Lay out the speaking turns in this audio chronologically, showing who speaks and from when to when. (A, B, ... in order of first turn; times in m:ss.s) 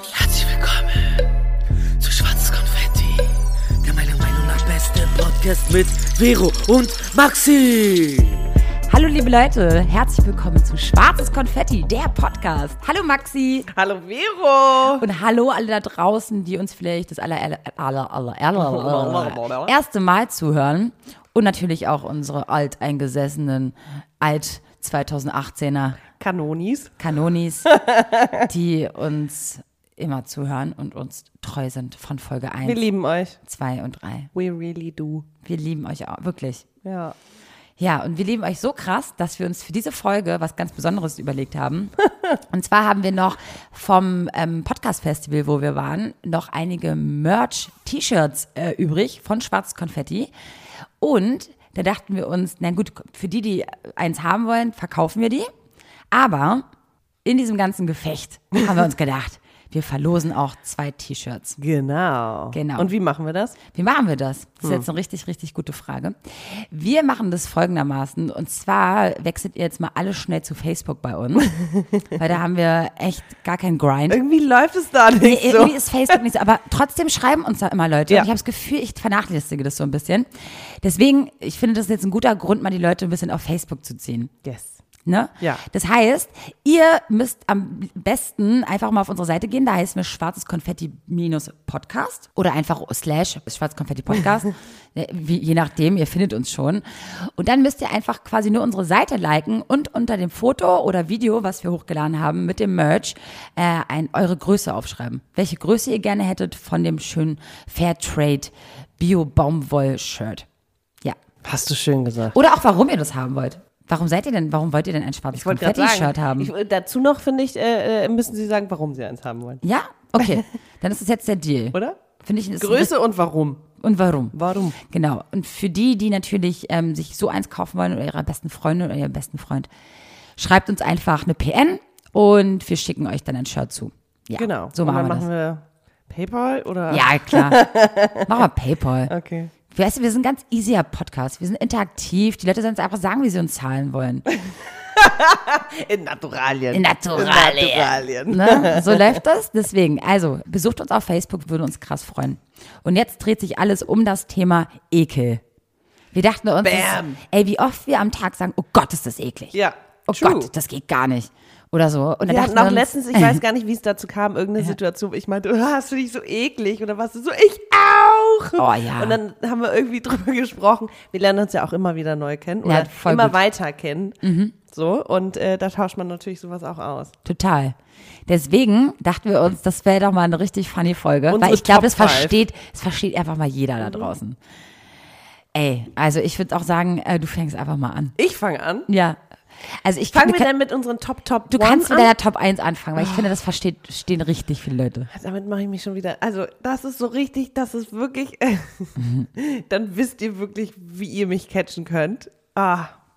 0:00.4-0:00.7 A
0:02.0-0:03.3 A
0:03.8-0:08.1 A
0:08.9-0:13.7 B
0:13.7-0:15.0 C
0:15.0-0:26.0 B
0:18.6-0:19.7 C
0:26.1-0:26.9 C
0:27.0-0:27.7 B
0:27.6-0:28.5 C
0:28.4-0:32.8 B
0:32.6-0:33.4 C
0:33.4-0:34.3 B
0:34.3-0:35.3 C
0:35.4-0:36.6 B
0:36.8-0:37.2 C
0:37.8-0:41.9 B
0:42.5-0:50.3 B
0:51.0-0:55.5 B
0:56.1-0:56.6 B
0:57.2-1:01.6 B
1:01.6-1:03.6 C
1:02.5-1:02.9 B
1:03.7-1:11.5 B
1:04.6-1:04.9 C
1:11.5-1:12.2 C
1:12.2-1:14.2 B
1:14.1-1:15.8 C
1:15.2-1:24.3 B
1:24.4-1:24.8 C
1:25.0-1:50.4 B
1:51.4-1:52.4 C
1:52.3-1:56.5 B
1:55.3-1:59.6 C
1:59.6-2:02.9 B
2:02.6-2:03.6 C
2:03.8-2:09.7 B
2:04.3-2:04.8 C
2:10.4-2:15.3 B
2:14.4-2:18.3 C
2:16.9-2:17.7 B
2:18.2-2:19.1 B
2:19.1-2:19.5 C
2:19.7-2:24.2 B
2:24.8-2:29.2 C
2:26.7-2:35.4 B
2:36.1-2:39.5 B
2:36.6-2:37.2 C
2:39.5-2:40.5 C
2:40.1-2:43.4 B
2:42.2-2:57.1 C
2:48.6-2:49.2 B
2:52.6-2:53.4 B
2:54.2-2:54.5 B
2:57.2-2:57.8 B
2:58.3-3:04.4 B
3:01.3-3:02.4 C
3:03.8-3:04.1 C
3:05.5-3:08.1 B
3:08.2-3:08.9 C
3:08.9-3:10.5 B
3:10.1-3:12.1 C
3:11.5-3:15.1 B
3:13.0-3:13.2 C
3:15.1-3:22.9 C
3:19.0-3:19.3 B